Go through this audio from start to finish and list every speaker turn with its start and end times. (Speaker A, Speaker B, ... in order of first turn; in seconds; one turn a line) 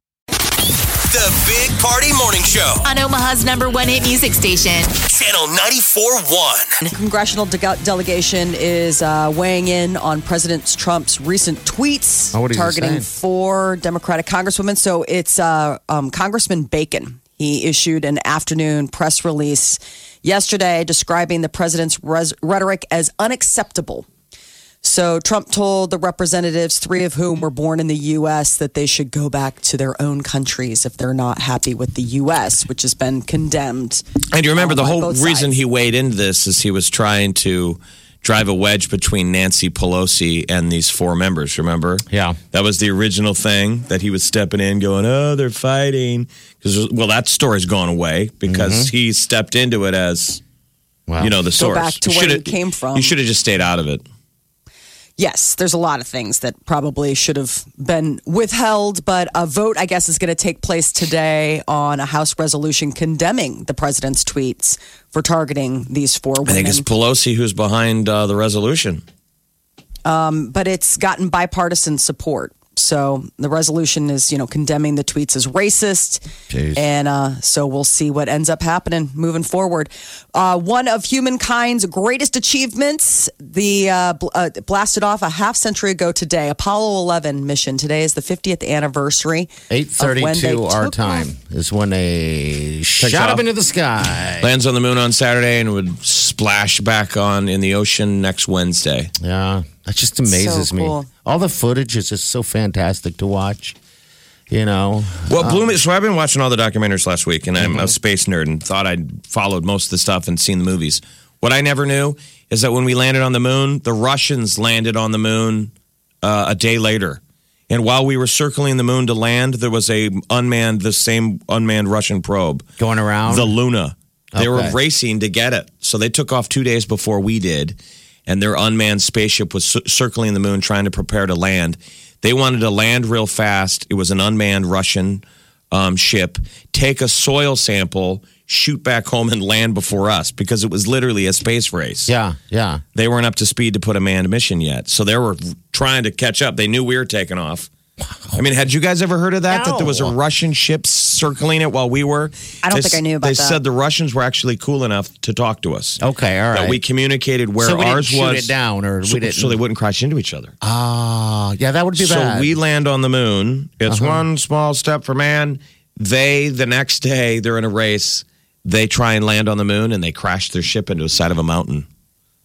Speaker A: 1.0-2.9
Speaker B: 2.8-5.0
Speaker A: 5.0-6.8
Speaker C: 6.9-24.1
Speaker D: 12.3-13.1
Speaker C: 24.8-34.0
Speaker E: 34.3-50.4
Speaker C: 34.6-35.5
Speaker D: 42.1-42.4
Speaker D: 48.5-48.9
Speaker D: 51.1-51.3
Speaker E: 51.2-54.0
Speaker C: 51.5-53.1
Speaker C: 55.2-66.9
Speaker E: 66.5-69.0
Speaker C: 70.0-76.2
Speaker D: 76.5-76.8
Speaker C: 76.8-91.3
Speaker D: 89.7-94.5
Speaker E: 93.0-93.4
Speaker E: 94.4-99.1
Speaker D: 99.2-103.8
Speaker C: 100.3-101.1
Speaker D: 104.5-105.7
Speaker E: 105.3-115.7
Speaker D: 107.6-107.9
Speaker E: 116.2-122.6
Speaker D: 122.8-123.5
Speaker E: 123.3-142.1
Speaker D: 124.3-124.8
Speaker D: 142.1-142.8
Speaker E: 142.9-147.7
Speaker E: 148.3-156.0
Speaker D: 149.5-150.1
Speaker C: 152.6-153.6
Speaker D: 156.0-156.8
Speaker E: 156.5-158.5
Speaker D: 157.6-159.6
Speaker E: 159.0-160.5
Speaker D: 160.6-162.5
Speaker E: 162.0-171.8
Speaker D: 163.8-164.2